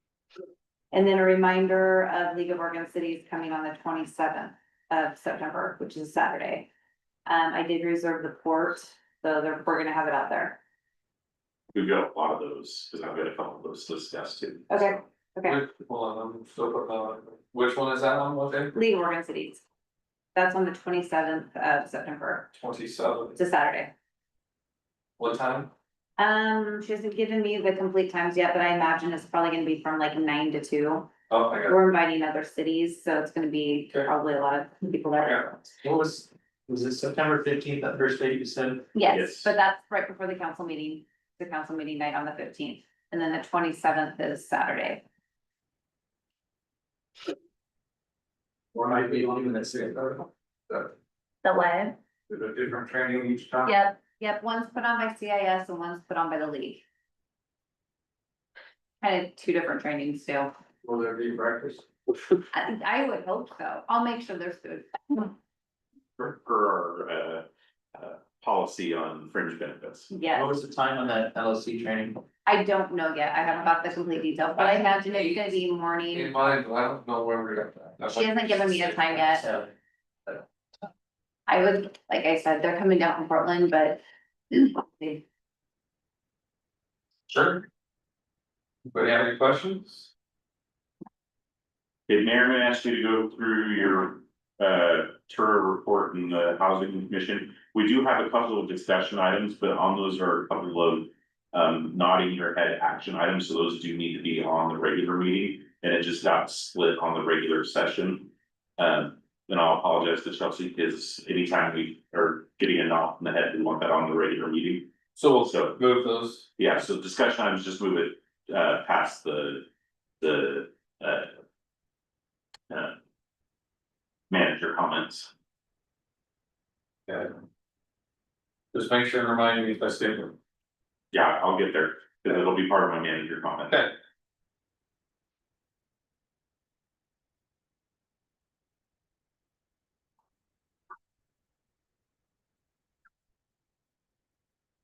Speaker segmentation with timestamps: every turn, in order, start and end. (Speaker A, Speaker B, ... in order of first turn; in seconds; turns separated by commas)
Speaker A: 0.9-6.7, Speaker A: 7.2-10.6, Speaker B: 11.7-15.0, Speaker A: 14.7-15.6, Speaker C: 15.4-18.7, Speaker A: 18.7-19.6, Speaker A: 20.3-22.5, Speaker C: 22.5-23.4, Speaker A: 23.4-23.9, Speaker C: 25.2-25.7, Speaker A: 26.2-31.1, Speaker C: 31.3-31.8, Speaker A: 31.7-35.7, Speaker D: 35.8-38.9, Speaker A: 38.9-45.0, Speaker B: 39.1-39.5, Speaker D: 48.7-50.3, Speaker A: 51.4-52.0, Speaker C: 52.3-53.7, Speaker A: 53.6-56.8, Speaker A: 59.0-60.5, Speaker C: 60.8-61.8, Speaker A: 62.5-65.3, Speaker B: 66.2-70.1, Speaker A: 70.1-70.5, Speaker D: 70.3-72.2, Speaker A: 72.4-76.4, Speaker D: 74.5-75.5, Speaker C: 76.1-79.0, Speaker A: 78.1-79.4, Speaker D: 79.0-79.7, Speaker A: 81.5-85.2, Speaker D: 87.3-87.7, Speaker C: 88.9-90.1, Speaker B: 92.1-114.9, Speaker C: 115.1-116.5, Speaker B: 115.5-115.8, Speaker B: 116.6-119.7, Speaker B: 120.2-121.3, Speaker B: 122.7-122.9, Speaker B: 124.3-125.3, Speaker C: 127.1-127.3, Speaker C: 128.7-130.3, Speaker B: 131.1-133.8, Speaker C: 133.7-133.9